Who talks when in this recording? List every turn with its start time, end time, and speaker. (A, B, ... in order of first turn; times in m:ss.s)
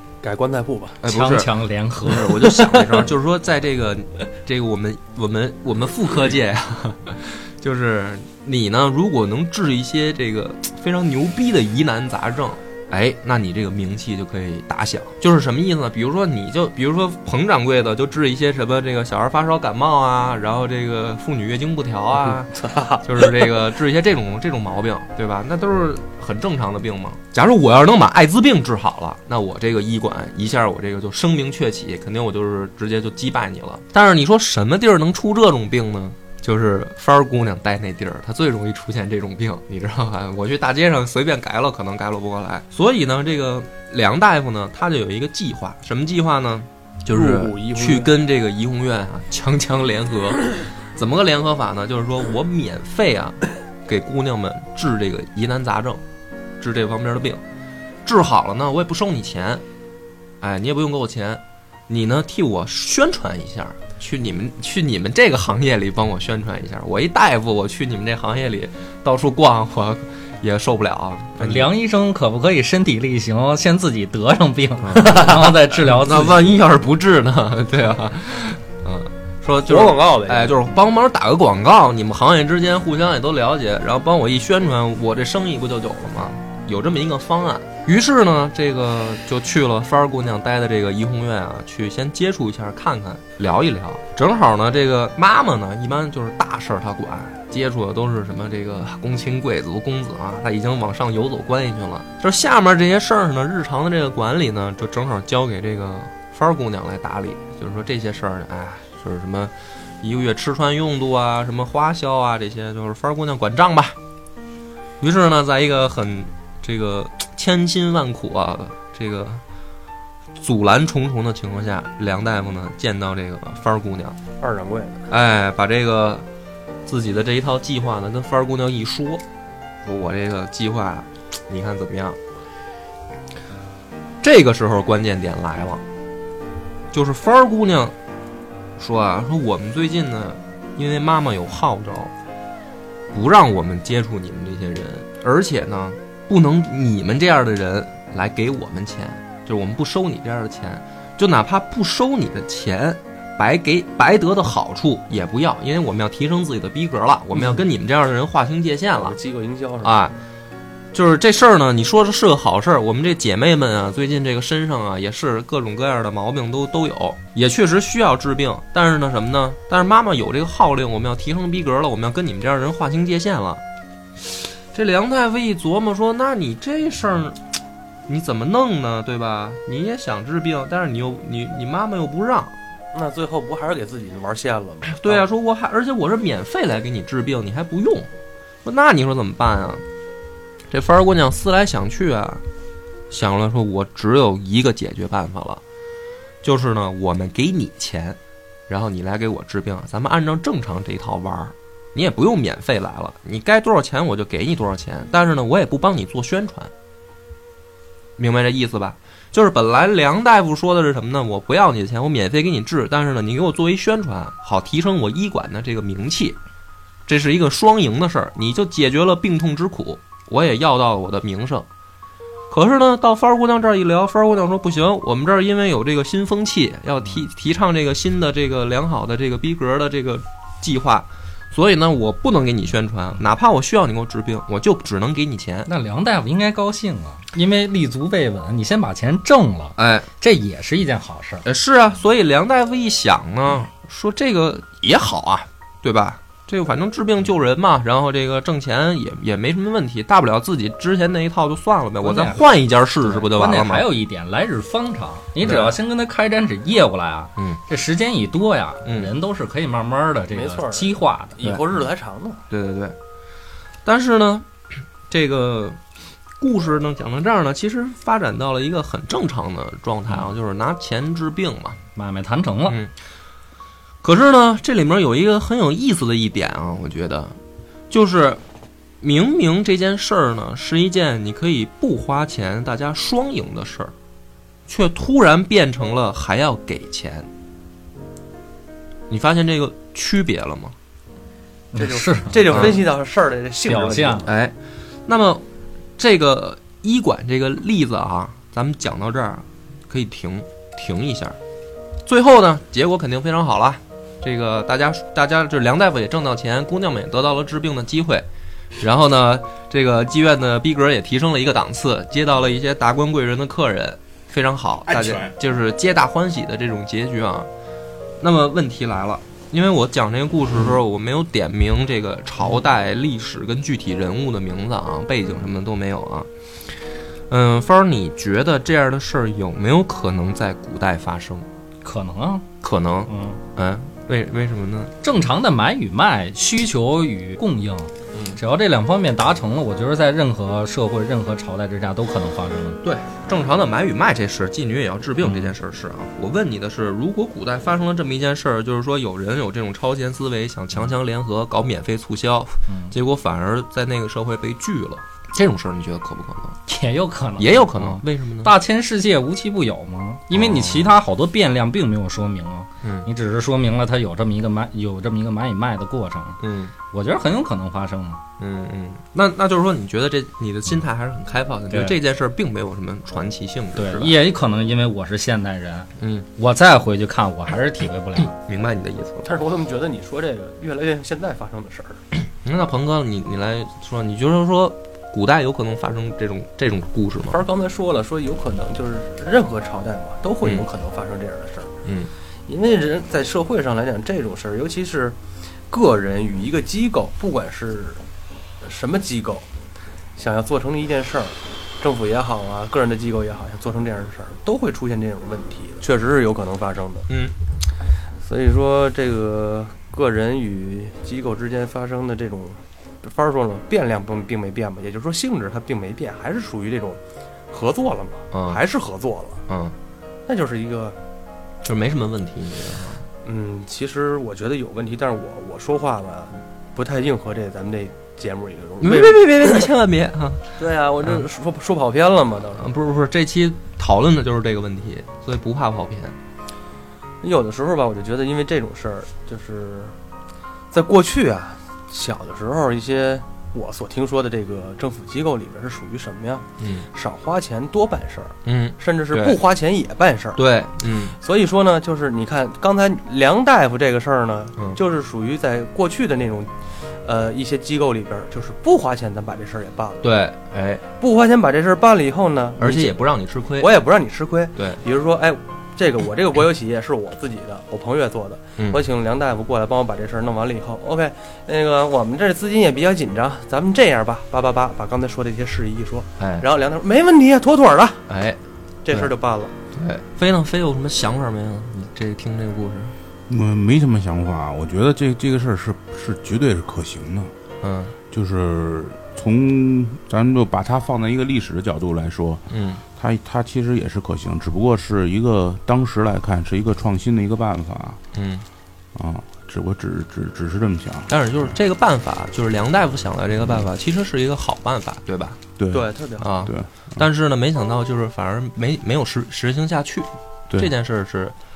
0:00.2-0:01.0 A
0:01.0-0:01.5 B
0:01.0-0:02.3 C
0:02.0-0:56.0 B
0:02.4-0:03.0 A
0:22.5-0:23.0 A
0:47.1-0:48.1 A
0:56.6-0:57.4 B
0:58.0-0:59.6 B
1:00.4-1:11.7 B
1:11.4-1:16.5 C
1:14.8-1:54.0 B
1:19.6-1:20.5 A
1:55.0-1:59.4 B
2:00.4-2:04.2 B
2:04.4-2:05.0 A
2:05.1-2:06.2 B
2:06.9-2:09.2 B
2:09.8-2:12.2 B
2:14.2-2:15.8 B
2:16.9-2:17.9 B
2:18.8-2:22.1 B
2:23.1-2:39.2 B
2:38.9-2:40.1 A
2:39.8-2:40.1 B
2:40.9-2:53.6 B
2:54.3-2:57.4 B
2:58.1-3:02.5 B
3:02.9-3:05.3 A
3:04.9-3:08.1 B
3:08.6-3:09.8 B
3:10.7-3:12.4 B
3:13.1-3:15.6 B
3:16.4-3:26.7 B
3:28.2-3:36.4 B
3:37.1-3:41.7 B
3:42.5-3:55.7 B
3:55.6-4:01.4 C
3:59.8-4:00.1 B
4:01.4-4:13.8 B
4:12.0-4:12.4 C
4:13.0-4:21.4 C
4:15.4-4:15.8 B
4:18.8-4:19.1 B
4:20.3-4:22.4 A
4:22.5-4:23.0 B
4:23.8-4:24.5 B
4:25.1-4:25.8 B
4:26.4-4:31.8 B
4:32.0-4:32.8 C
4:34.0-4:37.4 B
4:37.9-4:38.4 B
4:39.0-4:43.9 B
4:44.7-4:47.3 B
4:49.1-4:50.8 B
4:51.7-4:52.8 C
4:51.8-4:54.3 A
4:52.5-4:52.9 B
4:53.7-4:54.3 C
4:54.2-4:54.5 B
4:55.1-4:55.4 B
4:56.0-5:01.4 B
5:02.0-5:08.2 B
5:08.8-5:17.5 B
5:14.9-5:15.3 D
5:18.2-5:31.5 B
5:31.8-5:32.5 C
5:32.6-5:34.9 B
5:33.1-5:33.4 C
5:35.0-5:42.8 C
5:38.1-5:38.4 B
5:42.8-5:56.6 B
5:45.2-5:45.5 C
5:52.7-5:52.9 C
5:56.7-6:06.4 C
5:57.4-5:58.5 B
6:00.3-6:00.9 B
6:02.8-6:03.1 B
6:06.4-6:06.7 B
6:06.9-6:08.2 C
6:08.4-6:14.2 B
6:11.7-6:12.0 C
6:13.8-6:18.3 C
6:16.0-6:16.3 B
6:18.4-6:19.3 B
6:19.2-6:22.0 A
6:22.4-6:27.4 B
6:27.3-6:31.7 A
6:30.4-6:30.7 B
6:31.8-6:32.1 B
6:32.5-6:35.2 A
6:35.7-6:38.0 A
6:38.6-6:39.5 A
6:40.2-6:47.1 A
6:47.1-6:47.3 B
6:48.2-6:59.4 A
6:58.3-6:58.6 B
6:59.5-6:59.8 B
7:00.2-7:01.0 A
7:01.6-7:03.1 B
7:03.2-7:09.7 A
7:08.8-7:10.4 B
7:10.6-7:12.7 A
7:12.6-7:16.2 B
7:17.2-7:20.0 A
7:20.7-7:30.4 A
7:26.6-7:26.9 B
7:28.4-7:29.4 B
7:30.4-7:31.2 B
7:31.2-7:40.1 A
7:40.0-7:40.8 B
7:41.0-7:43.0 A
7:42.6-7:43.8 B
7:43.6-7:58.0 A
7:44.6-7:44.8 B
7:56.2-7:56.5 B
7:58.1-7:59.1 B
7:58.8-7:59.5 A
7:59.7-8:03.0 B
8:03.3-8:07.3 D
8:07.6-8:08.0 B
8:08.1-8:12.4 D
8:12.5-8:12.8 B
8:13.0-8:18.0 D
8:18.1-8:18.5 B
8:19.0-8:21.1 D
8:21.1-8:25.4 B
8:25.6-8:25.9 D
8:25.7-8:26.3 A
8:26.2-8:31.3 B
8:26.4-8:27.1 D